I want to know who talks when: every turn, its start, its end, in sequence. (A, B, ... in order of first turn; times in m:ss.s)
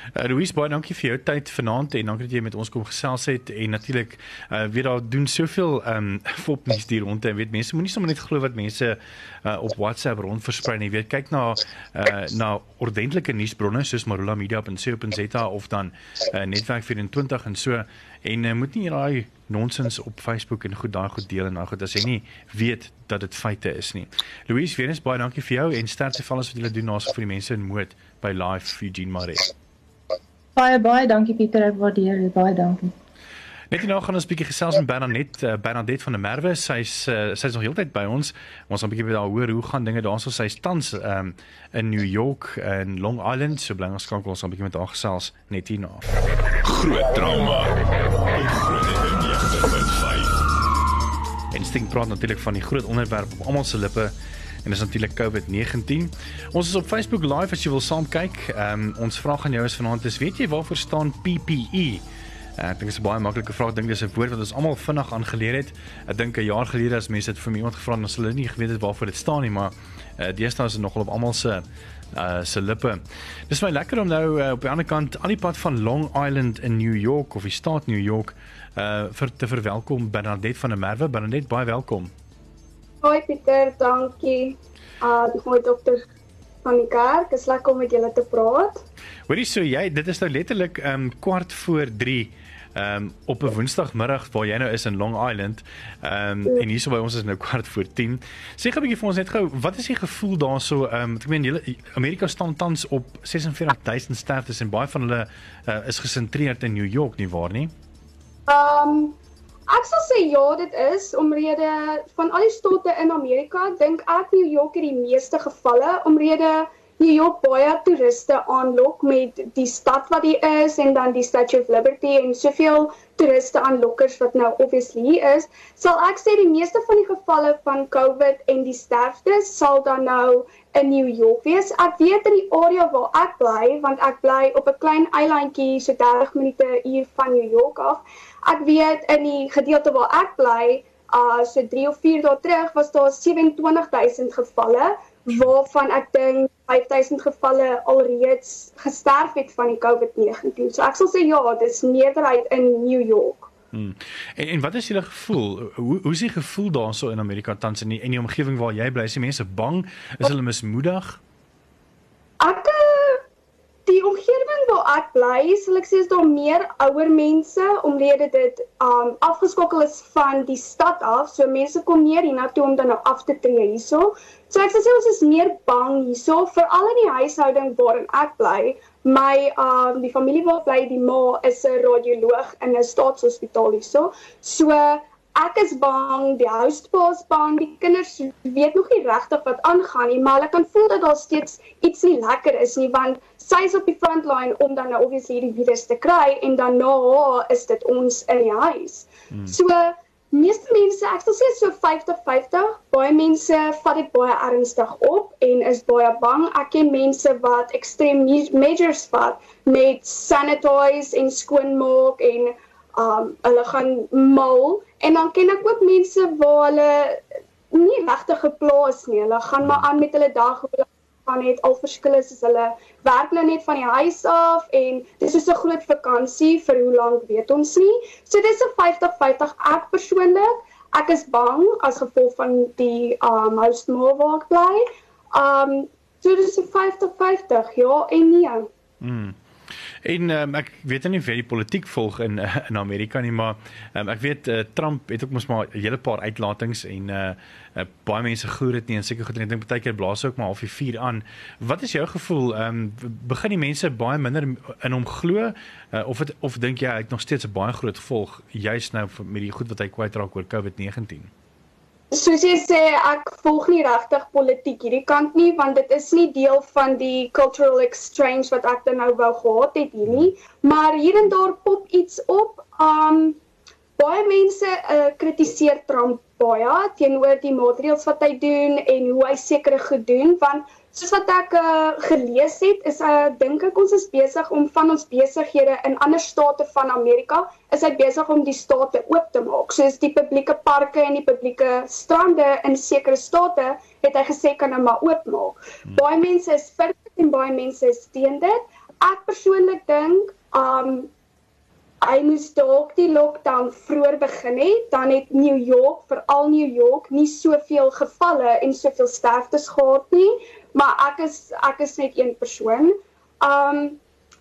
0:00.1-0:29.5 A
0:30.5-0:32.9 B
0:33.7-0:46.0 A
0:46.6-0:47.8 C
0:48.3-0:50.4 C
0:51.5-0:54.1 A
0:54.6-1:02.0 A
1:02.6-1:22.1 A
1:23.0-1:26.0 D
1:26.6-1:28.8 D
1:29.3-1:47.7 A
1:48.5-1:49.2 D
1:49.7-2:33.5 D
2:33.7-2:41.2 A
2:42.4-2:43.2 D
2:43.8-3:58.7 D
3:59.0-3:59.4 A
4:00.0-4:21.3 A
4:22.1-4:33.4 D
4:34.0-5:01.1 D
5:02.0-5:14.0 D